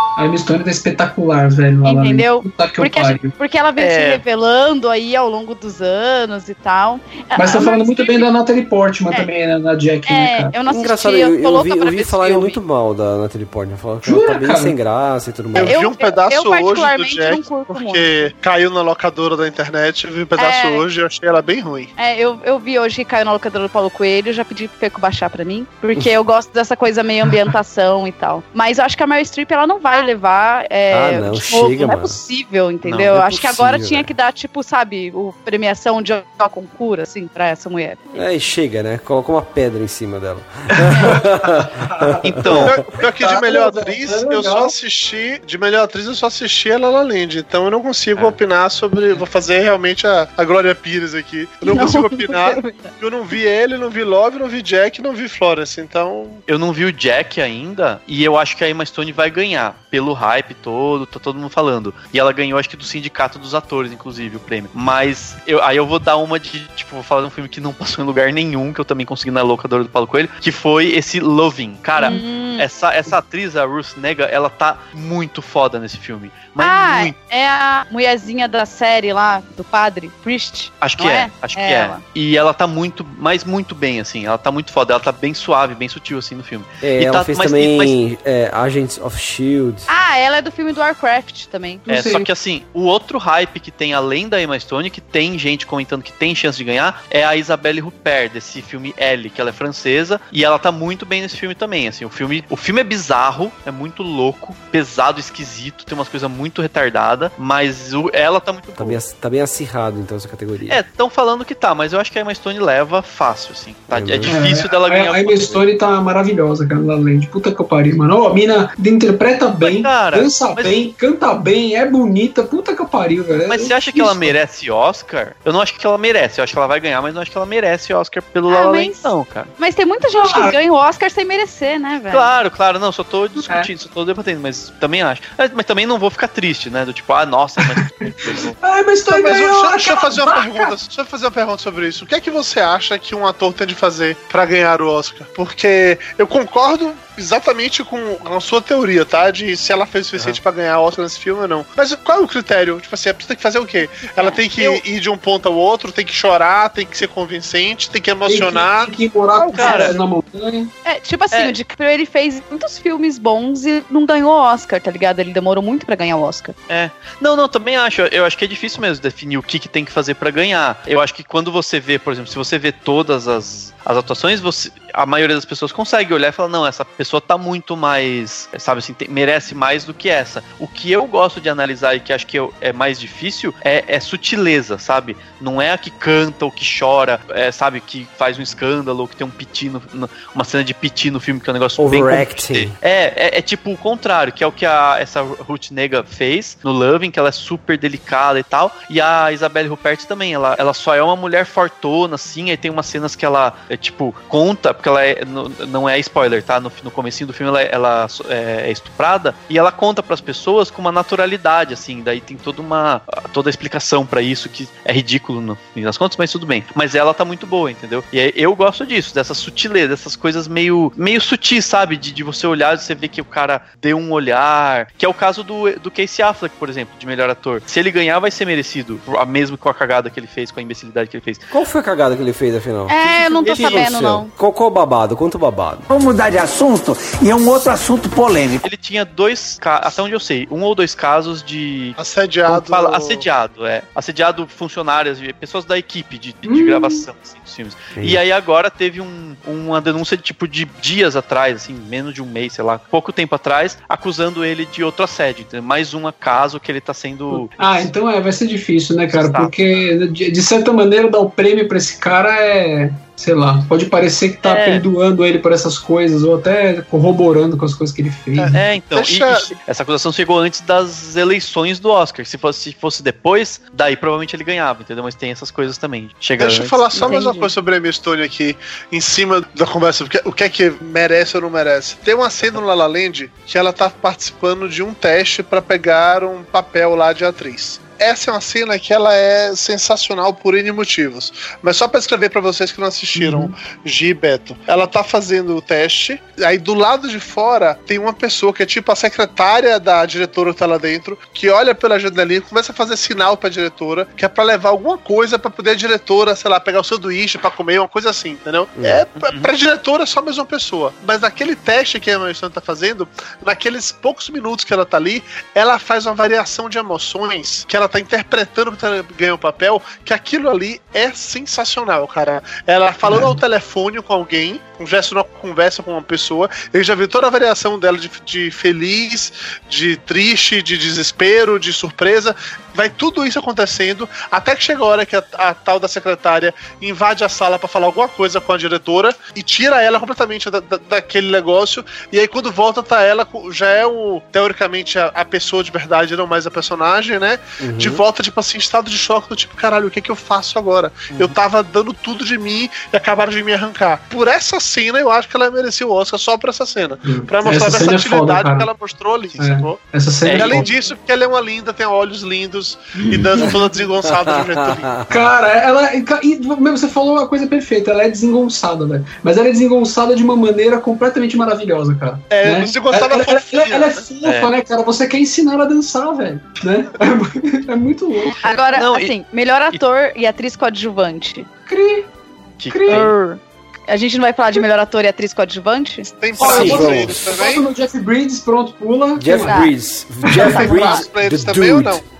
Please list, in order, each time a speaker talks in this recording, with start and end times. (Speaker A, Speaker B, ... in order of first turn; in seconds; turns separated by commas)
Speaker A: 0.2-3.3, Speaker B: 1.8-8.3, Speaker C: 3.8-4.2, Speaker A: 7.3-10.5, Speaker B: 10.1-12.6, Speaker D: 10.7-15.8, Speaker A: 14.0-14.7, Speaker E: 15.5-21.9, Speaker B: 15.6-18.3, Speaker B: 20.4-20.8, Speaker B: 22.0-38.2, Speaker D: 30.9-32.2, Speaker C: 32.8-33.3, Speaker D: 33.2-34.1, Speaker D: 38.1-42.7, Speaker A: 41.1-42.2, Speaker C: 42.2-42.7, Speaker E: 42.6-56.4, Speaker A: 42.9-44.7, Speaker B: 51.6-52.9, Speaker C: 56.5-77.1, Speaker B: 72.0-72.6, Speaker B: 76.6-82.0, Speaker C: 80.8-88.0, Speaker D: 86.8-89.9, Speaker B: 89.9-91.8, Speaker A: 91.8-92.3, Speaker C: 91.9-109.0, Speaker D: 108.8-110.8, Speaker C: 110.7-115.6, Speaker D: 113.9-114.4, Speaker A: 114.3-124.3, Speaker C: 119.6-120.8, Speaker C: 123.5-129.5, Speaker B: 128.5-132.3, Speaker A: 130.2-130.6, Speaker C: 132.1-138.5, Speaker A: 137.6-140.7, Speaker E: 139.1-160.0, Speaker B: 154.2-154.8, Speaker A: 158.2-160.7, Speaker C: 159.5-159.9, Speaker B: 159.6-159.9, Speaker B: 160.8-166.5, Speaker C: 166.7-231.4, Speaker D: 191.8-192.7, Speaker D: 231.5-235.9, Speaker B: 232.9-234.3, Speaker C: 233.5-233.8, Speaker F: 235.9-238.6, Speaker C: 238.6-257.9, Speaker E: 242.0-243.2, Speaker A: 246.4-247.0, Speaker A: 257.3-268.6, Speaker C: 259.1-259.8, Speaker C: 264.4-264.8, Speaker E: 268.4-269.5, Speaker C: 268.5-277.1, Speaker E: 276.4-365.0, Speaker B: 276.9-277.5, Speaker A: 293.1-293.5, Speaker D: 308.8-309.0, Speaker C: 309.2-309.5, Speaker A: 323.0-323.4, Speaker D: 347.6-348.0, Speaker A: 357.0-358.7, Speaker A: 359.4-360.7, Speaker C: 360.2-360.6, Speaker B: 362.9-363.5, Speaker D: 364.2-365.3, Speaker A: 365.1-378.4, Speaker E: 372.3-374.1, Speaker C: 374.2-374.5, Speaker B: 378.4-381.5, Speaker C: 378.7-379.1, Speaker A: 381.6-382.1, Speaker C: 382.6-383.1, Speaker A: 382.7-383.1, Speaker B: 382.9-386.7, Speaker E: 386.0-387.7, Speaker A: 386.4-389.6, Speaker D: 386.4-387.3, Speaker D: 389.2-392.0, Speaker B: 389.4-389.7, Speaker A: 390.2-390.9, Speaker B: 390.4-391.1, Speaker E: 390.8-392.0